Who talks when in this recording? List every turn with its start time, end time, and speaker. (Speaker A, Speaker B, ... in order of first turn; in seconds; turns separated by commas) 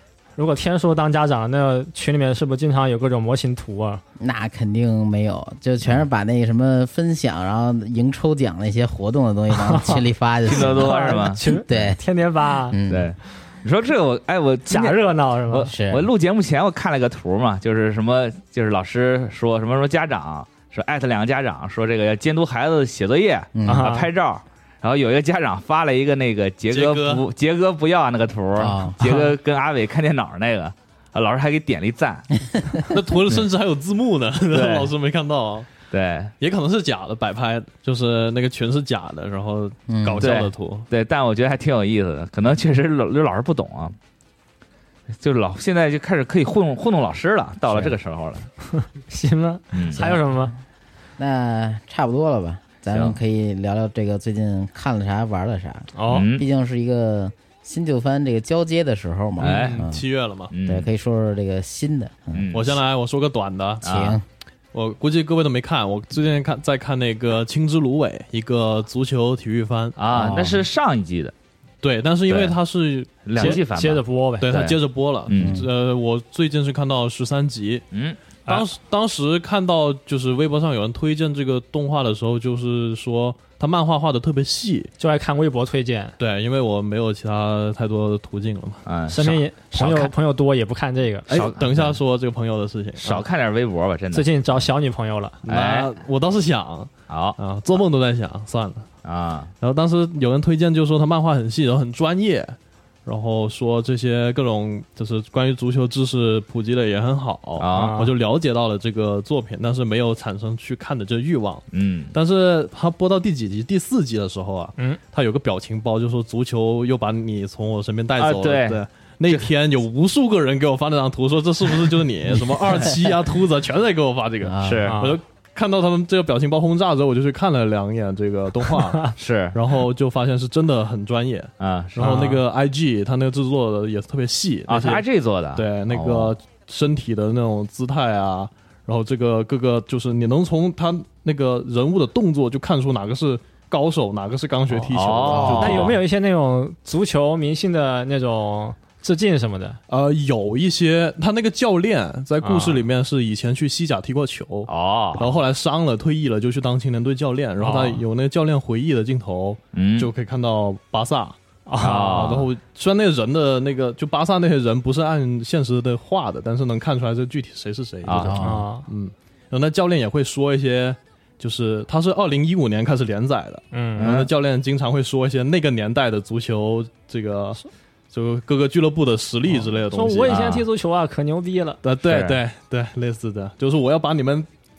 Speaker A: 0.4-4.0, Speaker B: 4.2-12.0, Speaker A: 9.5-12.8, Speaker C: 10.5-11.8, Speaker B: 12.7-13.1, Speaker C: 12.9-32.3, Speaker A: 14.7-15.7, Speaker B: 15.7-16.1, Speaker B: 23.6-23.9, Speaker A: 23.7-24.1, Speaker D: 26.7-27.2, Speaker B: 28.6-29.2, Speaker B: 32.6-33.4, Speaker D: 32.9-35.7, Speaker C: 34.5-34.9, Speaker C: 35.9-36.3, Speaker D: 36.4-40.9, Speaker B: 39.9-40.3, Speaker C: 40.2-44.0, Speaker C: 45.2-48.5, Speaker B: 47.7-48.0, Speaker A: 48.7-50.5, Speaker C: 49.7-50.0, Speaker B: 49.9-50.5, Speaker B: 51.2-60.0, Speaker A: 56.0-56.3, Speaker C: 56.1-56.5, Speaker D: 59.4-60.5, Speaker C: 59.4-59.8, Speaker C: 60.5-60.9, Speaker B: 60.6-62.5, Speaker C: 62.3-62.8, Speaker D: 62.5-63.9, Speaker C: 63.8-64.2, Speaker B: 63.8-64.2, Speaker D: 64.7-70.4, Speaker C: 70.0-71.3, Speaker B: 70.1-70.6, Speaker D: 71.8-73.6, Speaker C: 72.3-72.6, Speaker C: 73.2-75.7, Speaker A: 73.4-74.5, Speaker D: 74.4-77.8, Speaker B: 75.3-75.7, Speaker C: 77.9-78.2, Speaker D: 78.5-84.9, Speaker A: 85.0-86.2, Speaker D: 86.2-88.8, Speaker C: 88.9-90.1, Speaker A: 89.1-91.3, Speaker D: 91.3-93.2, Speaker C: 91.3-92.0, Speaker C: 93.0-94.3, Speaker A: 94.1-95.4, Speaker D: 95.5-98.9, Speaker C: 95.5-95.9, Speaker C: 97.1-97.4, Speaker C: 99.0-99.5, Speaker D: 99.6-135.0, Speaker C: 107.6-108.0, Speaker A: 107.7-108.1, Speaker C: 111.7-112.2, Speaker C: 118.2-119.5, Speaker B: 124.4-124.9, Speaker C: 124.6-125.0, Speaker A: 124.9-125.2, Speaker C: 129.2-129.6, Speaker C: 131.6-132.3, Speaker A: 132.0-132.4, Speaker C: 134.7-136.3, Speaker D: 135.6-146.0, Speaker C: 144.8-146.0, Speaker B: 145.2-145.8, Speaker A: 145.6-149.8, Speaker D: 149.9-161.4, Speaker A: 152.4-152.8, Speaker C: 154.7-155.4, Speaker A: 157.6-158.0, Speaker C: 159.7-160.1, Speaker A: 161.7-162.3, Speaker C: 161.8-162.5, Speaker D: 162.1-177.6, Speaker C: 168.0-168.4, Speaker B: 168.2-168.6, Speaker A: 168.4-168.9, Speaker A: 173.7-174.1, Speaker C: 174.0-174.3, Speaker D: 178.1-180.4, Speaker A: 179.9-181.8, Speaker C: 180.3-180.7, Speaker D: 181.8-184.5, Speaker C: 182.0-182.4